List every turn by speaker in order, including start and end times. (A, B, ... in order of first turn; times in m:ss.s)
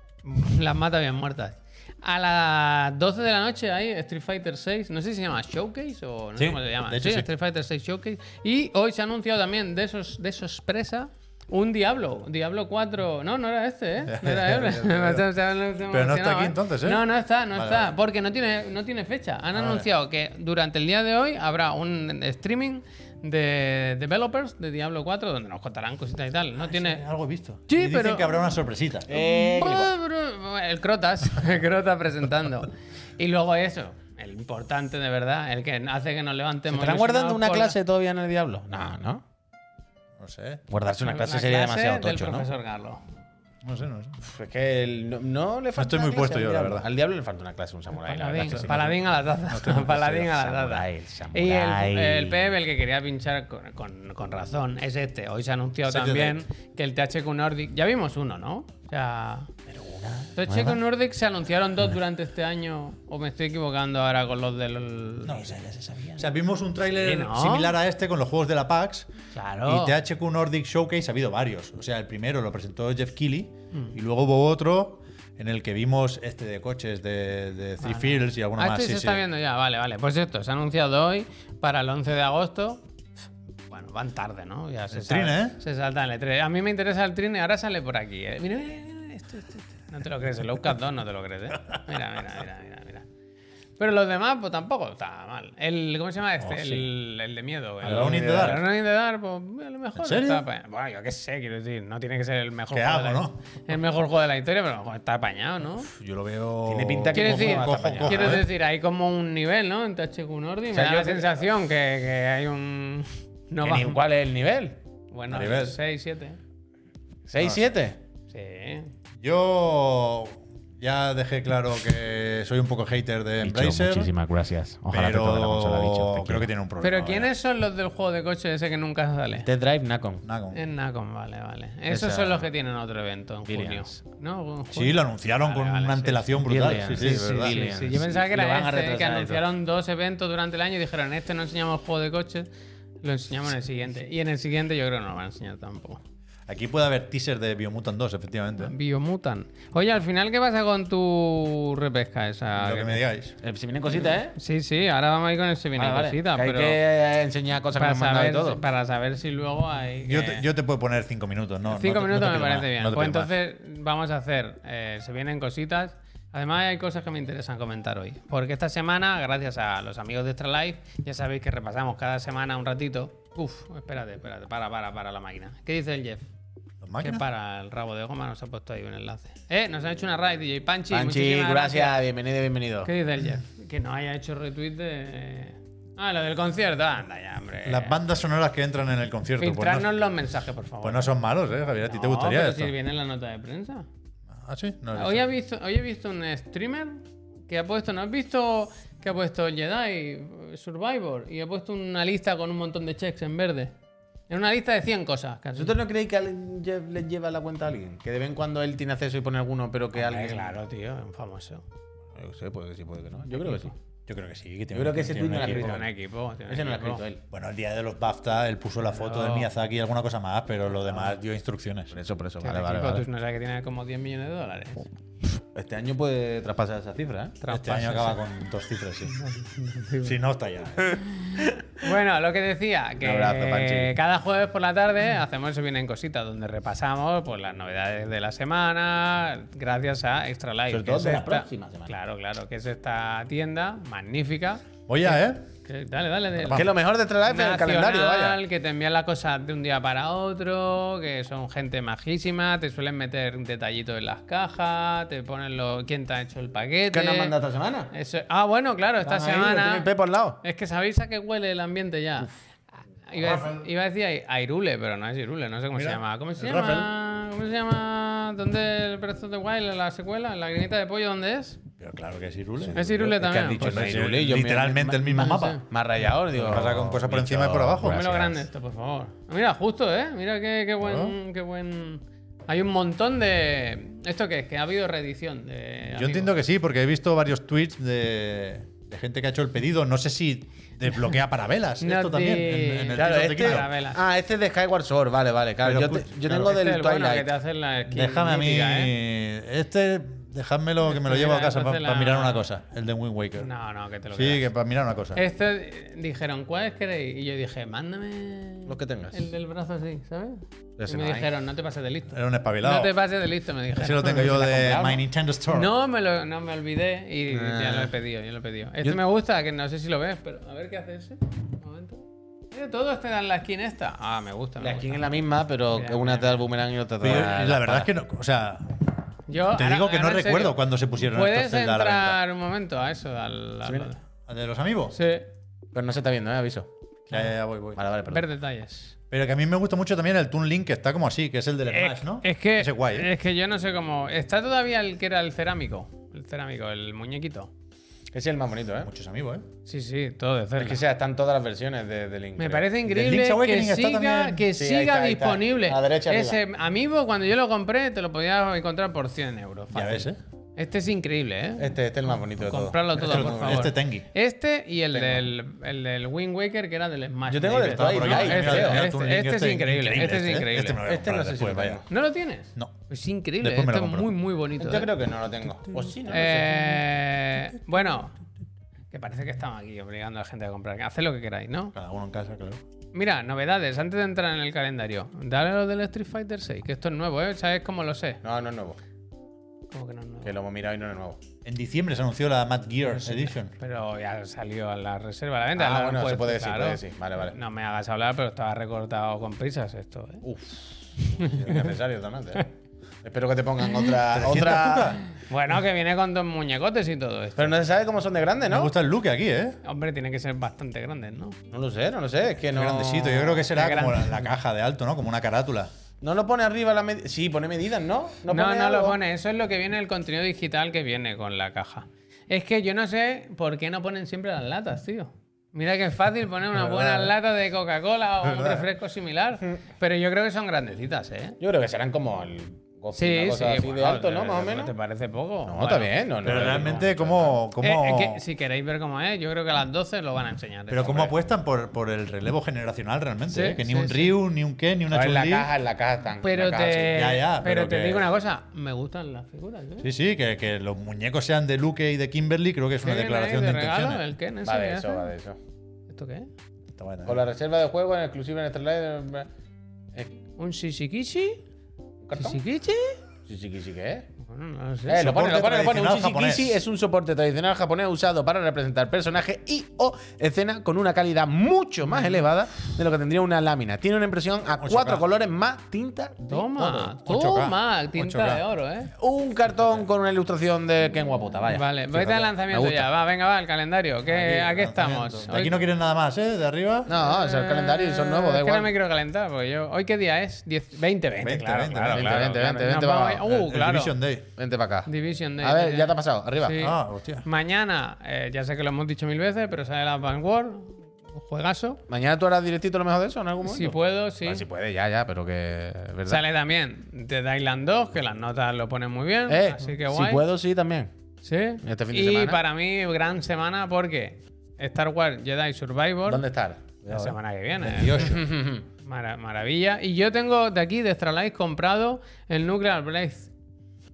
0:00.2-0:27.0 A
0:06.4-0:07.3 B
0:14.0-0:15.2 B
0:15.9-0:17.9 B
0:19.5-0:19.9 B
0:26.7-0:29.1 B
0:27.7-0:28.4 A
0:29.1-0:29.9 C
0:29.1-0:37.8 A
0:36.7-0:39.2 C
0:40.2-0:40.6 B
0:40.7-0:42.5 C
0:41.0-0:43.0 A
0:43.6-0:44.2 B
0:44.2-0:49.0 C
0:45.7-0:46.8 B
0:47.9-0:59.5 A
0:48.4-0:48.9 B
0:49.5-0:50.0 B
0:49.6-0:52.5 C
0:55.9-0:56.4 B
0:59.7-1:00.8 C
1:00.3-1:05.5 A
1:05.2-1:05.6 B
1:05.3-1:06.2 C
1:06.2-1:09.1 B
1:07.0-1:07.7 A
1:09.3-1:09.9 A
1:09.6-1:19.2 B
1:17.8-1:22.8 A
1:23.7-1:33.0 A
1:24.9-1:25.6 B
1:33.8-1:45.9 A
1:37.8-1:38.6 B
1:37.8-1:38.6 C
1:40.0-1:40.4 B
1:42.7-1:43.4 B
1:45.8-1:48.4 B
1:46.6-1:48.4 C
1:47.1-1:54.0 A
1:50.7-1:51.4 C
1:53.6-1:54.8 C
1:55.1-1:56.4 A
1:55.3-1:55.8 B
1:57.3-1:58.0 C
1:57.4-1:57.7 B
1:58.3-1:58.9 A
1:59.2-2:04.1 B
2:03.4-2:06.5 C
2:04.9-2:07.3 B
2:06.8-2:09.5 A
2:09.4-2:10.2 C
2:10.2-2:10.6 B
2:10.5-2:22.5 A
2:11.9-2:12.5 C
2:13.4-2:14.0 C
2:14.7-2:17.6 B
2:16.4-2:19.4 C
2:23.0-2:26.0 A
2:26.5-2:28.7 B
2:28.6-2:33.0 A
2:32.6-2:33.4 B
2:33.4-2:34.4 C
2:34.3-2:36.8 A
2:35.8-2:38.6 C
2:37.7-2:40.4 A
2:40.0-2:43.3 B
2:41.7-2:56.2 A
2:56.8-2:57.2 B
2:57.0-3:02.0 A
3:00.9-3:02.9 C
3:02.8-3:08.0 A
3:07.6-3:09.9 B
3:09.4-3:11.1 A
3:10.8-3:12.7 B
3:11.8-3:13.9 A
3:14.4-3:15.2 B
3:14.9-3:23.7 A
3:24.3-3:25.8 A
3:25.6-3:30.6 C
3:29.9-3:31.6 A
3:32.2-3:33.7 C
3:33.4-3:33.7 A
3:34.1-3:35.8 B
3:34.7-3:35.9 C
3:35.3-3:37.0 A
3:36.5-3:37.2 C
3:37.3-3:41.9 B
3:38.8-3:39.5 A
3:41.9-3:43.0 C
3:42.4-3:44.9 A
3:45.5-3:47.4 C
3:47.4-3:48.2 A
3:47.5-3:49.2 B
3:49.1-3:50.1 A
3:50.0-3:51.0 B
3:51.2-4:06.7 A
3:51.4-3:51.8 C
3:53.0-3:53.9 C
4:00.7-4:01.9 C
4:04.9-4:05.4 B
4:06.4-4:06.7 B
4:06.5-4:08.4 C
4:07.2-4:17.3 A
4:16.9-4:17.9 C
4:17.9-4:19.9 A
4:19.0-4:20.4 C
4:20.4-4:22.3 A
4:23.0-4:31.6 A
4:23.2-4:23.6 B
4:25.7-4:26.9 B
4:31.8-4:35.6 B
4:32.7-4:38.4 C
4:32.7-4:33.9 A
4:35.0-4:35.6 A
4:36.3-4:38.2 B
4:37.8-4:46.4 A
4:40.8-4:41.2 B
4:45.9-4:53.7 B
4:51.8-4:54.0 A
4:52.9-4:57.3 C
4:55.6-4:56.5 B
4:56.3-4:58.9 A
4:57.9-5:03.5 B
5:00.8-5:02.4 A
5:03.4-5:04.5 A
5:04.1-5:05.2 B
5:05.1-5:14.8 A
5:08.7-5:09.3 C
5:10.8-5:11.3 C
5:12.1-5:12.9 B
5:13.7-5:15.7 B
5:14.1-5:15.0 C
5:15.5-5:25.0 A
5:17.3-5:17.9 C
5:24.6-5:27.9 C
5:25.7-5:26.4 A
5:27.0-5:32.2 B
5:29.3-5:34.0 A
5:33.6-5:33.9 C
5:34.3-5:35.0 B
5:34.9-5:35.3 A
5:35.7-5:36.7 C
5:37.1-5:37.8 B
5:37.8-5:38.2 C
5:38.1-5:38.9 A
5:39.1-5:43.1 B
5:41.7-5:47.5 A
5:48.1-5:48.9 C
5:48.8-5:49.4 B
5:49.6-5:50.8 A
5:50.6-5:52.7 C
5:52.4-6:10.8 A
5:52.8-5:54.4 B
5:54.5-5:56.4 C
5:59.7-6:00.2 B
6:01.6-6:03.7 C
6:03.0-6:04.1 B
6:04.9-6:05.3 C
6:07.3-6:08.9 C
6:07.6-6:11.8 B
6:10.8-6:11.9 C
6:11.9-6:14.9 A
6:13.4-6:14.1 B
6:14.6-6:16.6 C
6:16.1-6:18.2 A
6:18.9-6:21.7 A
6:21.7-6:22.6 B
6:22.9-6:28.2 A
6:28.2-6:28.8 C
6:29.7-6:30.4 A
6:30.2-6:31.2 C
6:31.4-6:33.5 B
6:32.9-6:40.2 A
6:35.6-6:37.4 C
6:40.2-6:42.5 C
6:41.0-6:41.7 A
6:43.0-6:45.0 C
6:44.1-6:45.0 B
6:45.1-6:47.6 A
6:47.4-6:48.7 C
6:48.5-6:49.6 B
6:49.6-6:51.4 A
6:51.5-6:53.5 C
6:52.5-6:55.7 B
6:53.5-6:54.3 A
6:56.0-6:59.0 C
6:58.3-7:11.4 A
7:08.2-7:08.6 B
7:11.4-7:14.7 C
7:12.9-7:16.8 A
7:15.4-7:17.4 C
7:16.2-7:18.2 B
7:17.6-7:21.1 A
7:20.7-7:25.5 B
7:23.3-7:24.1 A
7:24.9-7:27.0 C
7:26.2-7:29.9 A
7:26.9-7:28.1 B
7:29.8-7:34.0 B
7:32.8-7:35.1 A
7:34.4-7:35.4 C
7:35.9-7:36.3 A
7:36.8-7:37.2 B
7:37.0-7:39.3 C
7:40.4-7:41.4 A
7:42.0-7:42.4 C
7:42.2-7:43.0 A
7:43.3-7:44.1 C
7:44.2-7:45.1 A
7:44.9-7:56.9 C
7:45.0-7:46.6 B
7:54.6-7:55.0 B
7:56.3-7:58.9 A
7:57.0-7:58.4 B
7:59.0-8:01.8 C
8:01.5-8:05.6 A
8:01.9-8:02.3 B
8:02.4-8:02.9 C
8:04.0-8:06.9 B
8:06.9-8:08.7 C
8:06.9-8:14.0 A
8:11.2-8:12.2 B
8:11.8-8:13.3 C
8:13.2-8:14.3 B
8:14.4-8:16.7 C
8:14.8-8:21.8 A
8:16.6-8:17.2 B
8:21.9-8:26.2 C
8:23.4-8:24.4 A
8:26.0-8:30.2 A
8:29.3-8:30.9 C
8:31.2-8:36.2 A
8:31.6-8:32.4 C
8:36.1-8:37.0 C
8:36.8-8:38.2 A
8:36.9-8:38.2 B
8:37.9-8:38.6 C
8:38.8-8:43.3 A